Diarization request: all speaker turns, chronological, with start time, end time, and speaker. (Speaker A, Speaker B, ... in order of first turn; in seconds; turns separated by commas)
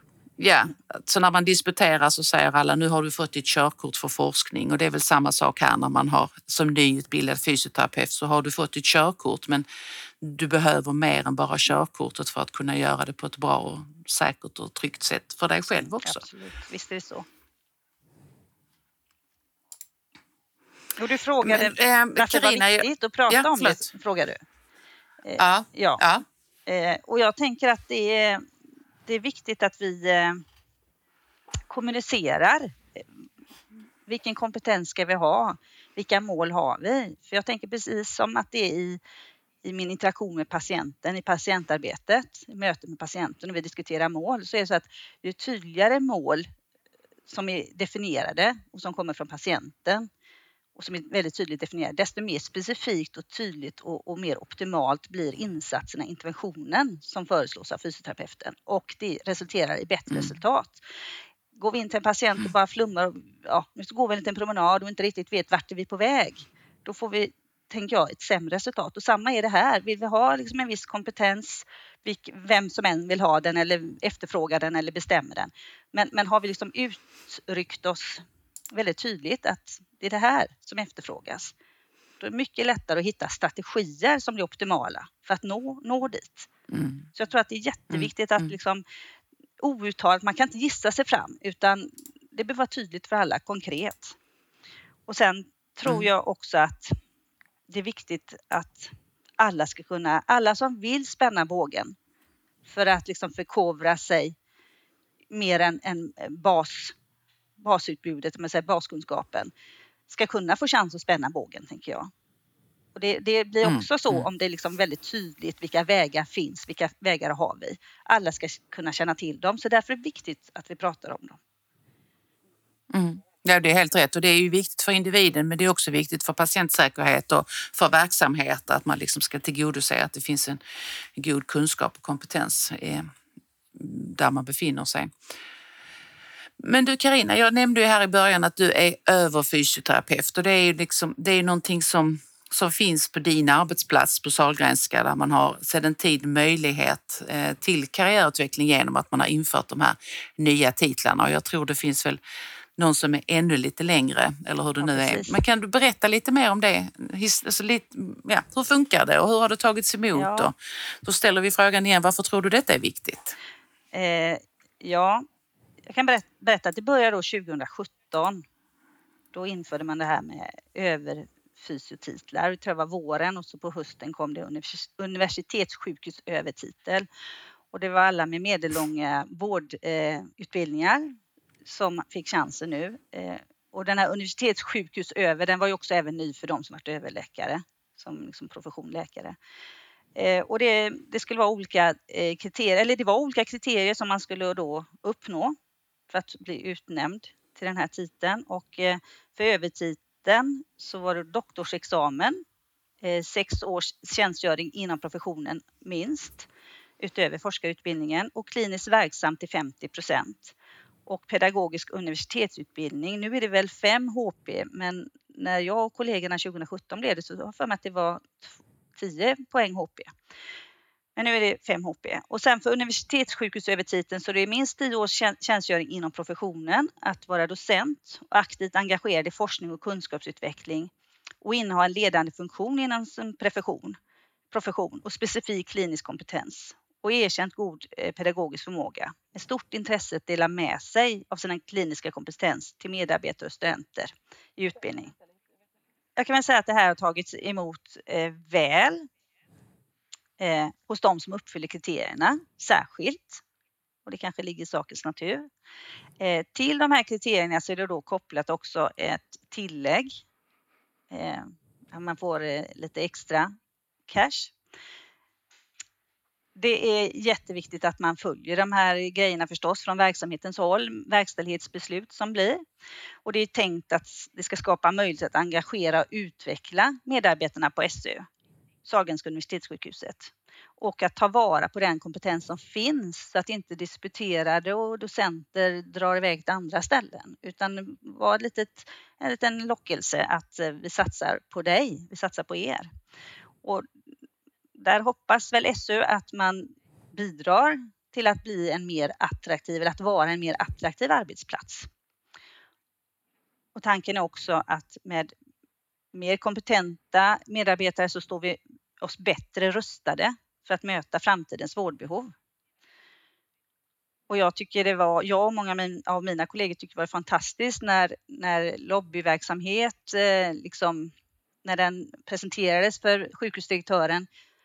Speaker A: 0.4-9.7, Speaker A: 10.2-16.2, Speaker B: 16.0-17.3, Speaker B: 21.0-24.4, Speaker A: 21.4-23.9, Speaker B: 25.2-26.0, Speaker A: 25.4-26.2, Speaker B: 26.7-28.4, Speaker B: 29.1-30.4, Speaker B: 31.7-33.0, Speaker B: 34.1-39.0, Speaker B: 39.6-46.5, Speaker B: 47.3-50.1, Speaker B: 50.8-60.8, Speaker B: 61.5-81.5, Speaker B: 82.2-86.5, Speaker A: 86.7-87.1, Speaker B: 87.2-88.8, Speaker A: 87.9-88.5, Speaker B: 89.6-94.2, Speaker B: 95.1-97.0, Speaker B: 97.7-102.0, Speaker B: 102.7-104.3, Speaker B: 105.3-107.0, Speaker B: 107.6-109.5, Speaker B: 110.1-112.1, Speaker B: 113.0-121.4, Speaker A: 113.6-114.3, Speaker A: 122.9-130.6, Speaker A: 131.2-133.1, Speaker A: 133.8-135.1, Speaker A: 136.6-152.2, Speaker A: 152.8-163.3, Speaker B: 154.8-155.4, Speaker B: 160.2-160.5, Speaker B: 163.9-165.2, Speaker B: 165.9-168.4, Speaker B: 169.3-177.1, Speaker B: 177.7-189.4, Speaker B: 190.2-195.6, Speaker B: 196.1-202.4, Speaker B: 203.0-206.5, Speaker B: 207.0-210.6, Speaker B: 211.1-220.1, Speaker B: 221.2-230.9, Speaker B: 231.4-234.0, Speaker B: 234.5-245.1, Speaker B: 246.2-249.1, Speaker B: 250.4-253.4, Speaker B: 254.1-255.5, Speaker B: 256.2-260.2, Speaker B: 261.1-263.5, Speaker B: 264.1-264.5, Speaker B: 266.6-272.6, Speaker B: 273.2-278.3, Speaker B: 278.9-292.9, Speaker B: 294.8-301.9, Speaker B: 303.8-305.3, Speaker B: 306.1-312.3, Speaker B: 314.3-321.1, Speaker B: 321.6-324.3